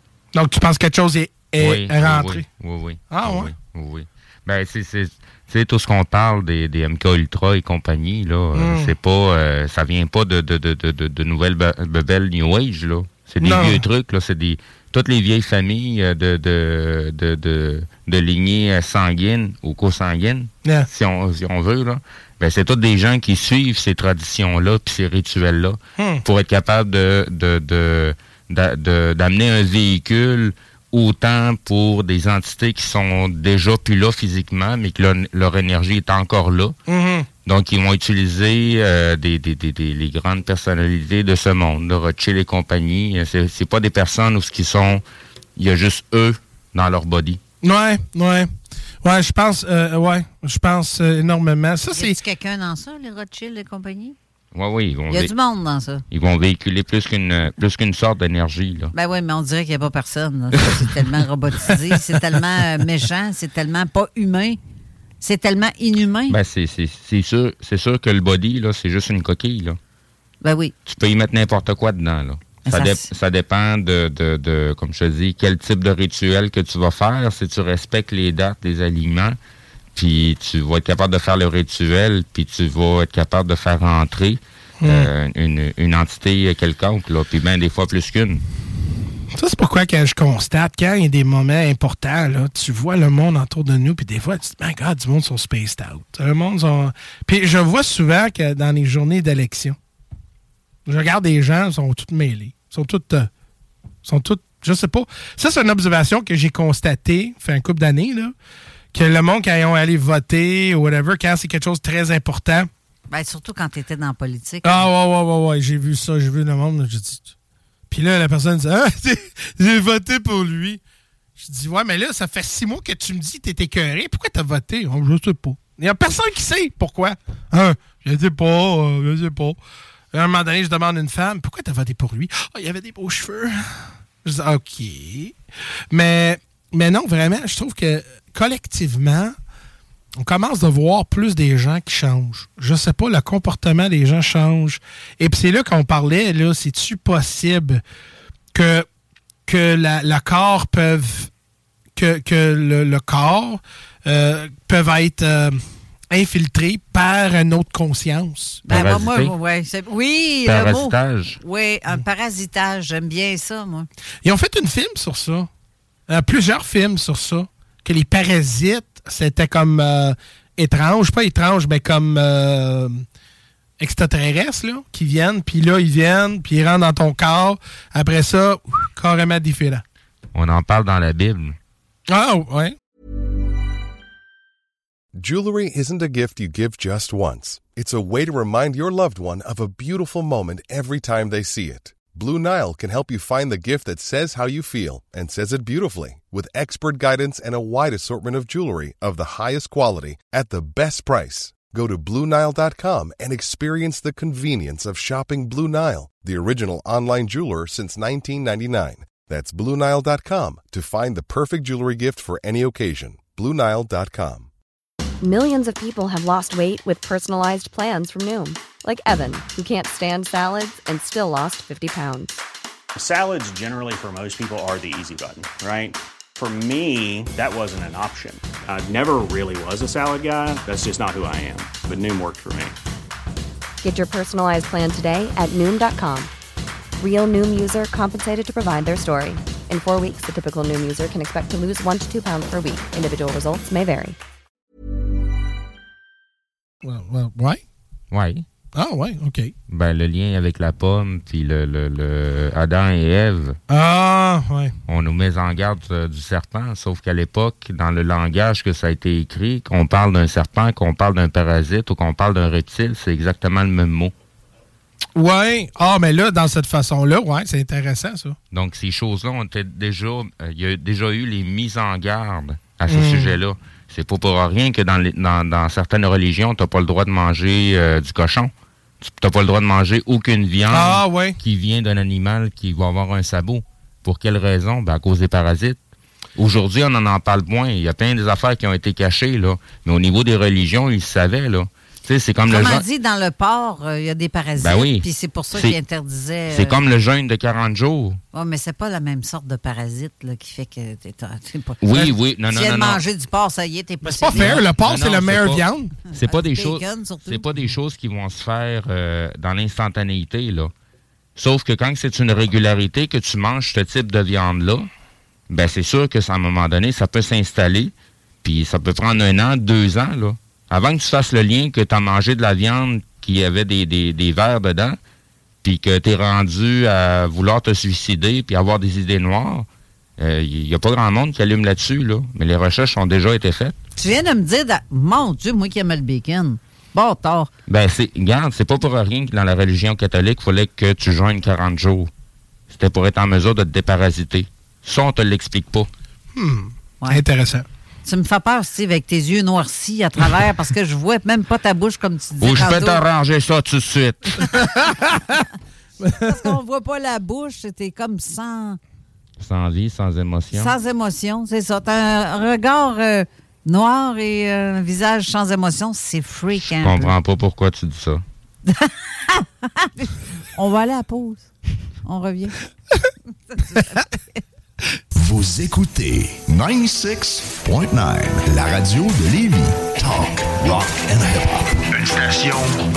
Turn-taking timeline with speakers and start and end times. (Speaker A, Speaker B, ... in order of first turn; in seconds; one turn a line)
Speaker A: 0.3-2.4
Speaker B: 1.6-36.7
Speaker A: 3.1-3.5
Speaker A: 8.5-8.9
Speaker A: 13.4-13.8
Speaker A: 26.0-26.2
Speaker A: 36.9-37.3
Speaker B: 37.4-45.0
Speaker B: 45.6-47.4
Speaker A: 47.6-48.5
Speaker A: 49.0-52.2
Speaker C: 51.9-54.1
Speaker B: 54.5-55.3
Speaker C: 55.1-56.0
Speaker B: 56.1-58.9
Speaker C: 58.9-64.6
Speaker C: 65.2-66.4
Speaker B: 66.3-69.8
Speaker C: 70.4-70.7
Speaker B: 70.8-79.4
Speaker C: 72.7-73.1
Speaker B: 79.9-88.4
Speaker A: 84.8-85.1
Speaker A: 89.3-99.8
Speaker A: 100.8-103.3
Speaker A: 104.0-108.3
Speaker A: 108.9-112.7
Speaker C: 113.1-114.9
Speaker A: 114.6-117.3
Speaker A: 117.9-120.8
Speaker A: 121.4-129.6
Speaker A: 130.1-135.3
Speaker A: 135.9-139.3
Speaker A: 140.2-147.8
Speaker A: 148.5-148.9
Speaker A: 149.4-151.3
Speaker A: 151.9-158.6
Speaker B: 158.7-159.3
Speaker C: 158.7-163.9
Speaker B: 160.4-161.4
Speaker A: 164.2-165.5
Speaker A: 166.1-173.0
Speaker A: 173.8-179.8
Speaker B: 180.3-181.6
Speaker A: 182.1-182.8
Speaker D: 185.1-214.5
Speaker E: 215.2-222.3
Speaker F: 222.9-232.7
Speaker E: 233.8-236.3
Speaker E: 237.0-244.2
Speaker A: 246.8-247.6
Speaker B: 248.1-248.4
Speaker A: 248.7-249.5
Speaker B: 249.7-253.6
Speaker A: 253.7-254.7
Speaker B: 254.9-264.1
Speaker A: 265.1-268.4
Speaker B: 268.5-285.8
Speaker A: 272.9-273.4
Speaker A: 280.7-281.4
Speaker B: 286.4-292.8
Speaker C: 292.5-296.8
Speaker B: 294.6-295.8
Speaker B: 296.5-298.2
Speaker C: 298.3-304.7
Speaker B: 301.8-303.0
Speaker A: 304.0-305.9
Speaker B: 304.3-310.7
Speaker C: 306.2-307.4
Speaker B: 311.4-314.9
Speaker B: 315.5-317.9
Speaker B: 318.4-325.0
Speaker B: 325.6-329.7
Speaker B: 330.2-333.8
Speaker C: 334.0-337.5
Speaker B: 337.7-342.1
Speaker B: 342.7-345.9
Speaker A: 346.3-347.7
Speaker C: 348.0-353.0
Speaker B: 352.4-354.6
Speaker A: 354.6-355.4
Speaker A: 356.0-356.5
Speaker C: 356.1-358.8
Speaker B: 359.4-360.7
Speaker C: 360.5-367.1
Speaker B: 366.8-368.2
Speaker C: 368.7-371.5
Speaker C: 372.0-372.6
Speaker C: 373.5-374.4
Speaker G: 375.1-382.8